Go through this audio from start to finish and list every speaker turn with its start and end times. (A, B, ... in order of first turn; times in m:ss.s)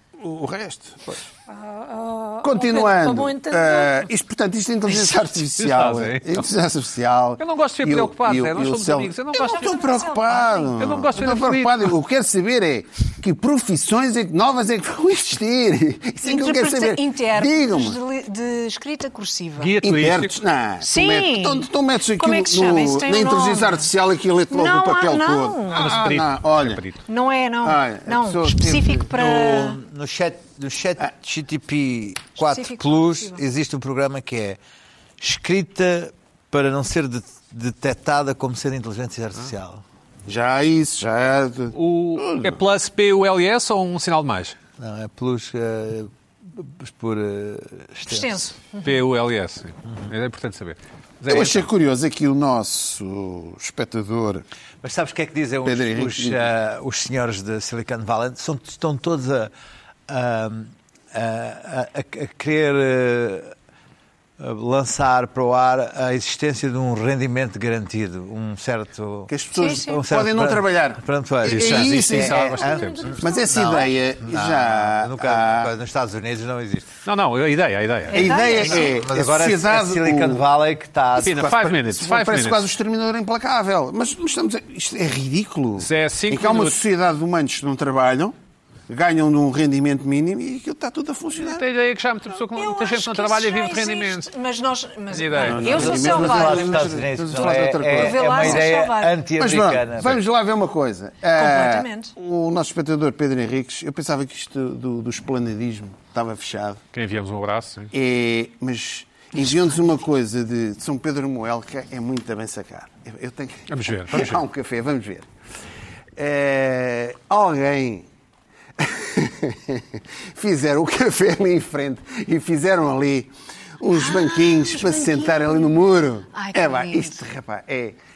0:00.2-0:01.3 A
0:01.5-0:04.1 B
0:02.4-0:18.0 A
0:04.9-0:05.4 C
0:05.6-0:06.5 D
0:07.4-0:09.7 D
0:09.3-0:11.1 C
0:10.8-0:11.9 D
0:16.2-0:19.8 C
0:19.6-0:20.4 D
0:19.8-0:26.8 A
0:20.8-0:21.7 C
0:22.2-0:23.9 C
0:24.5-0:26.0 C
0:25.7-0:27.0 D
0:27.1-0:29.8 C
0:27.6-0:29.1 A
0:29.2-0:34.6 E
0:32.4-0:33.4 C
0:35.2-0:39.8 E
0:40.3-0:42.6 A
0:41.7-0:44.6 D
0:44.8-0:48.4 E
0:48.1-0:49.0 C
0:48.8-0:51.7 D
0:51.3-0:54.4 A
0:54.8-0:59.5 E
0:55.6-0:56.4 A
1:00.1-1:03.5 E
1:04.4-1:16.9 E
1:09.3-1:15.7 A
1:09.6-1:10.1 C
1:11.4-1:13.1 D
1:12.6-1:13.9 B
1:17.0-1:18.3 D
1:18.1-1:19.0 C
1:18.1-1:20.4 A
1:18.2-1:21.6 E
1:21.2-1:22.7 D
1:21.4-1:28.4 A
1:25.8-1:26.8 D
1:28.9-1:31.6 A
1:31.4-1:34.3 D
1:32.5-1:39.2 C
1:35.1-1:36.0 D
1:35.4-1:38.7 A
1:35.6-1:40.2 E
1:39.4-1:46.8 A
1:41.3-1:42.1 C
1:46.9-1:47.9 D
1:47.9-1:55.3 A
1:53.7-1:54.4 D
1:56.2-1:58.1 A
1:58.8-2:08.0 A
2:03.9-2:05.8 C
2:06.3-2:07.2 C